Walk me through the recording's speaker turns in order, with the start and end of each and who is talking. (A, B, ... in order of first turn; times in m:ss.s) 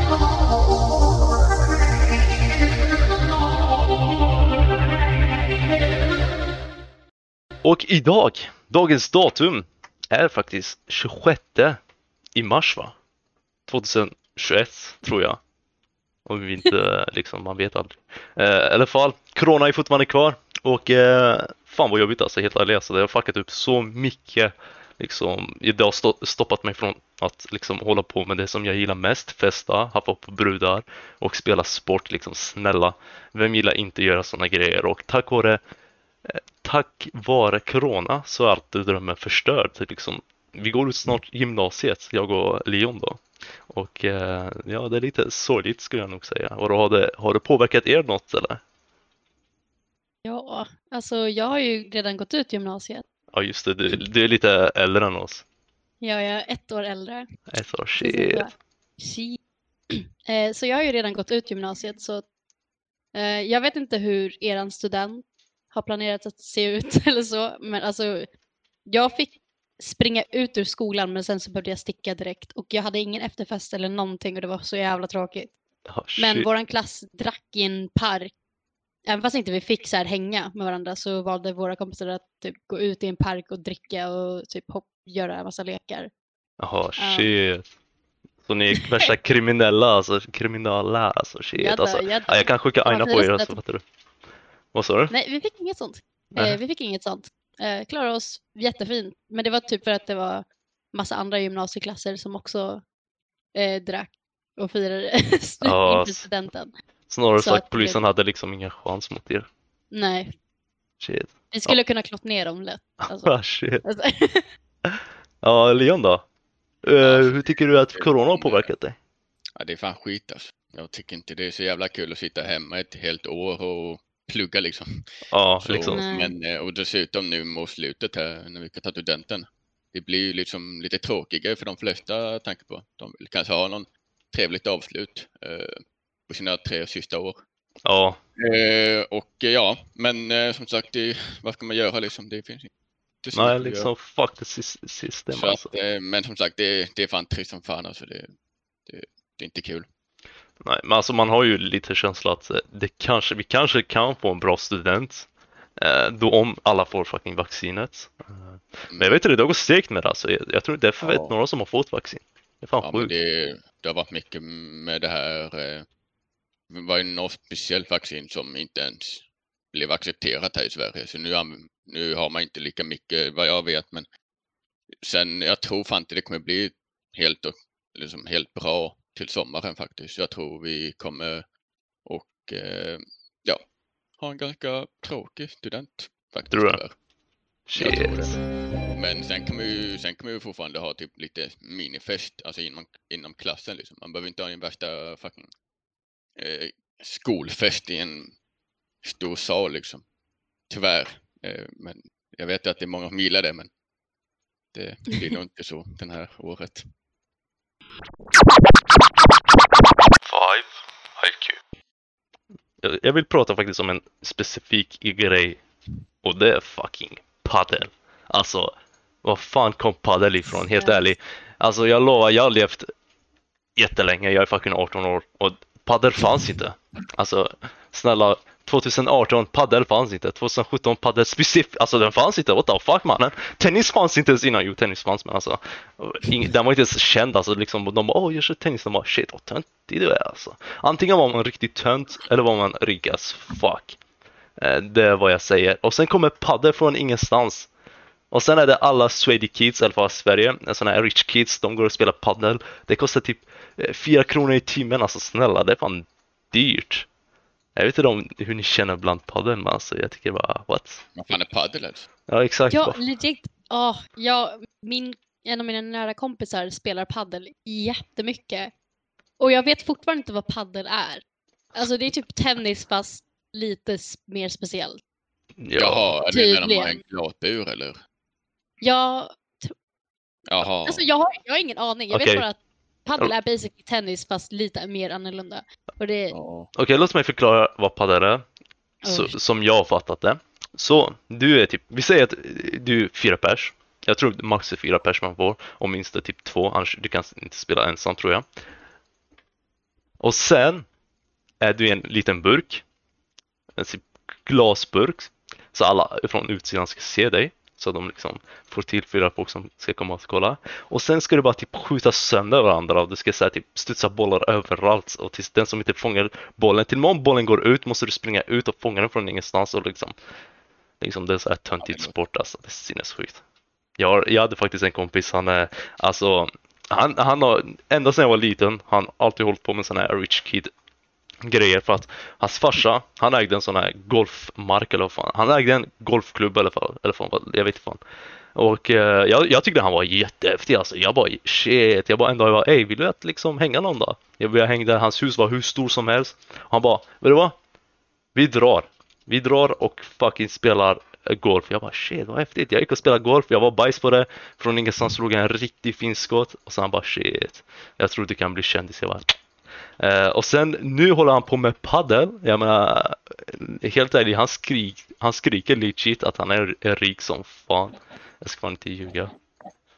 0:07.6-0:11.8 A
0:12.3-0:12.9 A
0:13.7-0:15.4 A
0:16.2-0:35.6 A
0:36.2-0:48.6 A
0:50.2-0:53.0 B
0:53.3-0:55.4 A
0:56.0-0:57.2 B
0:57.5-0:58.4 A
0:58.0-0:59.4 B
0:59.9-1:02.2 B
1:03.1-1:08.3 B
1:08.8-1:15.5 B
1:15.9-1:16.5 A
1:16.2-1:18.3 B
1:19.1-1:26.1 B
1:26.6-1:27.7 A
1:27.0-1:27.3 B
1:28.4-1:33.8 A
1:28.7-1:29.1 B
1:31.6-1:33.6 B
1:34.7-1:35.1 A
1:35.1-1:42.8 B
1:43.5-1:46.7 B
1:45.6-1:46.2 A
1:47.1-1:49.5 A
1:47.4-1:48.0 B
1:49.9-1:50.3 B
1:51.0-1:51.8 A
1:51.5-1:54.5 B
1:53.2-1:53.8 A
1:54.8-1:56.2 A
1:56.8-1:59.0 A
1:57.0-1:58.7 C
1:59.6-2:05.0 C
2:05.3-2:06.0 A
2:05.6-2:17.4 C
2:05.9-2:06.3 B
2:17.8-2:18.2 A
2:18.4-2:22.7 C
2:23.2-2:23.9 C
2:23.3-2:25.7 A
2:25.3-2:28.3 C
2:28.9-2:29.8 C
2:30.6-2:43.1 A
2:41.0-2:41.3 C
2:42.8-2:45.8 C
2:46.7-2:54.1 C
2:55.0-3:01.4 C
3:02.0-3:03.6 C
3:04.2-3:06.9 C
3:06.5-3:06.8 A
3:07.7-3:08.4 A
3:07.7-3:15.5 C
3:16.4-3:18.4 C
3:19.0-3:20.0 C
3:20.7-3:23.7 C
3:24.7-3:26.9 C
3:30.2-3:31.6 A
3:32.8-3:35.6 A
3:36.2-3:38.7 A
3:39.2-3:42.8 A
3:43.8-4:04.0 A
4:04.6-4:07.7 A
4:08.3-4:17.1 A
4:17.8-4:21.4 A
4:21.1-4:22.1 C
4:22.3-4:23.0 A
4:22.7-4:28.7 B
4:29.4-4:35.0 B
4:35.6-4:36.1 A
4:35.8-4:38.0 C
4:36.3-4:37.0 B
4:38.8-4:39.7 B
4:40.5-4:41.0 C
4:40.6-4:46.3 B
4:42.1-4:42.4 A
4:46.3-4:46.7 C
4:46.7-4:48.4 A
4:49.0-4:49.3 B
4:49.0-4:58.4 A
5:00.2-5:00.9 A
5:01.6-5:02.8 A
5:03.7-5:20.1 A
5:21.0-5:23.4 A
5:21.8-5:22.1 C
5:24.0-5:30.7 A
5:31.4-5:38.0 A
5:38.5-5:47.6 A
5:48.3-5:59.3 A
6:00.0-6:09.3 A